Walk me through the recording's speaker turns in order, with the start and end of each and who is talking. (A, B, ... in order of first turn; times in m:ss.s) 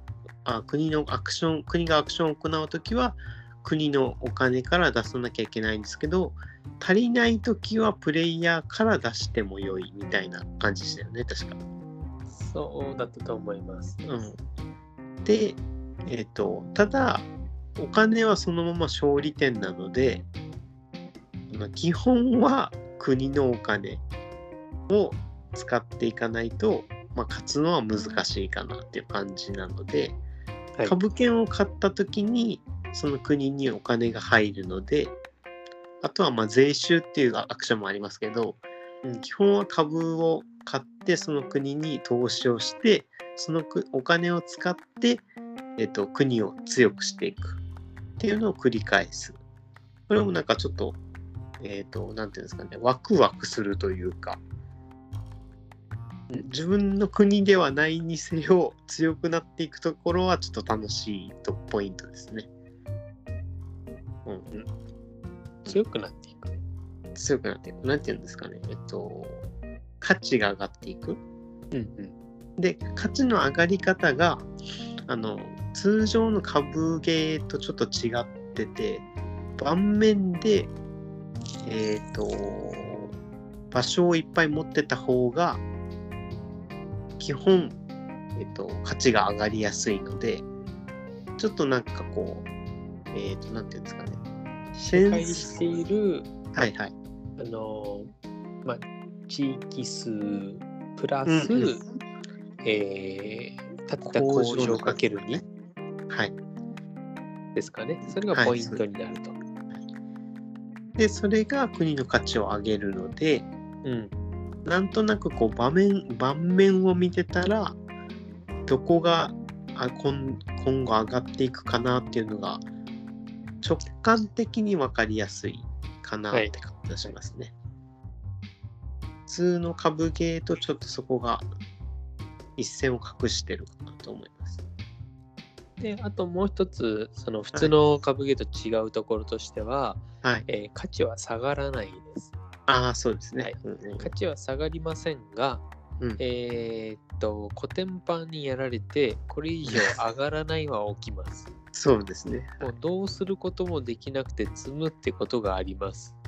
0:00.4-0:11.6 A
0:12.3-0:14.0 B
0:14.0-0:14.4 A
0:15.2-0:20.2 A
0:21.5-0:24.0 A
0:24.9-0:30.2 A
0:30.8-0:35.1 A
0:36.0-0:38.6 A
0:39.2-0:45.2 A
0:45.8-0:47.6 A
0:48.2-0:49.4 A
0:50.1-0:51.0 A
0:51.6-0:54.4 A
0:56.3-1:02.5 A
1:04.2-1:04.7 A
1:05.6-1:06.5 B
1:07.1-1:09.4 A
1:10.0-1:11.2 A
1:11.7-1:12.1 B
1:12.6-1:14.5 A
1:15.1-1:19.0 A
1:19.6-1:20.7 A
1:21.6-1:23.1 A
1:23.7-1:25.6 A
1:27.2-1:27.8 A
1:28.3-1:30.4 A
1:31.4-1:32.5 A
1:33.1-1:34.2 A
1:34.7-1:36.3 B
1:34.9-1:35.6 A
1:36.5-1:36.9 A
1:37.4-1:38.1 B
1:38.6-1:41.8 B
1:41.3-1:41.7 A
1:42.6-1:45.4 B
1:44.0-1:45.4 A
1:47.5-1:49.3 B
1:48.3-1:48.8 A
1:51.0-1:53.5 A
1:53.8-1:54.1 B
1:54.6-1:57.8 A
1:58.7-2:02.6 A
2:03.6-2:07.5 A
2:09.3-2:11.4 A
2:12.6-2:14.6 A
2:15.8-2:22.3 B
2:22.7-2:24.1 A
2:23.4-2:25.6 B
2:26.2-2:31.5 B
2:29.7-2:29.9 A
2:31.7-2:32.7 A
2:32.6-2:36.1 B